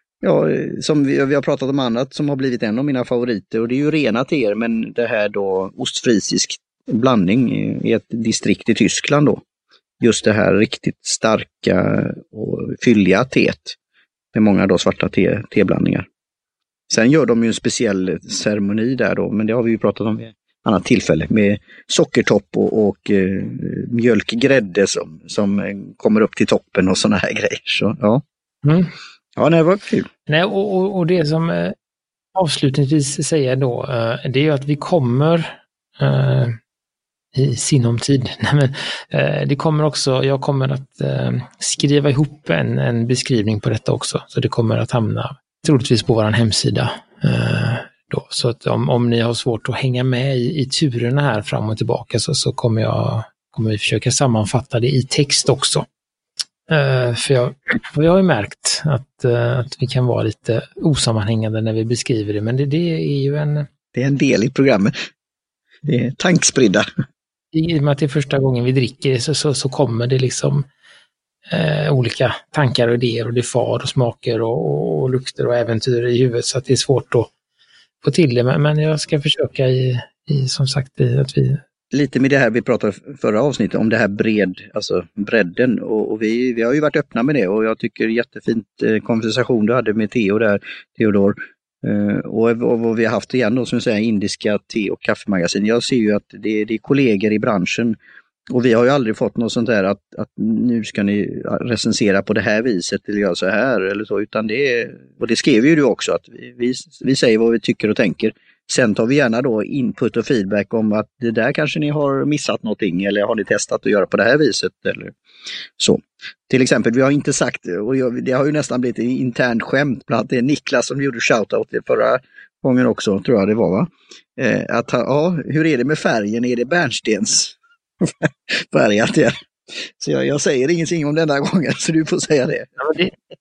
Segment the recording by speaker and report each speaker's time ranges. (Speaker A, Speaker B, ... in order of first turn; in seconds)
Speaker A: 0.2-9.4, 10.0-13.8, 14.3-16.1, 16.9-28.2, 29.3-30.1, 63.9-64.9, 65.8-66.8, 81.9-98.0, 98.5-115.1, 115.8-132.7
Speaker B: 28.6-28.9, 30.3-31.7, 32.3-36.6, 37.3-55.9, 56.7-63.7, 67.5-70.7, 71.5-77.3, 78.0-81.6, 132.8-133.1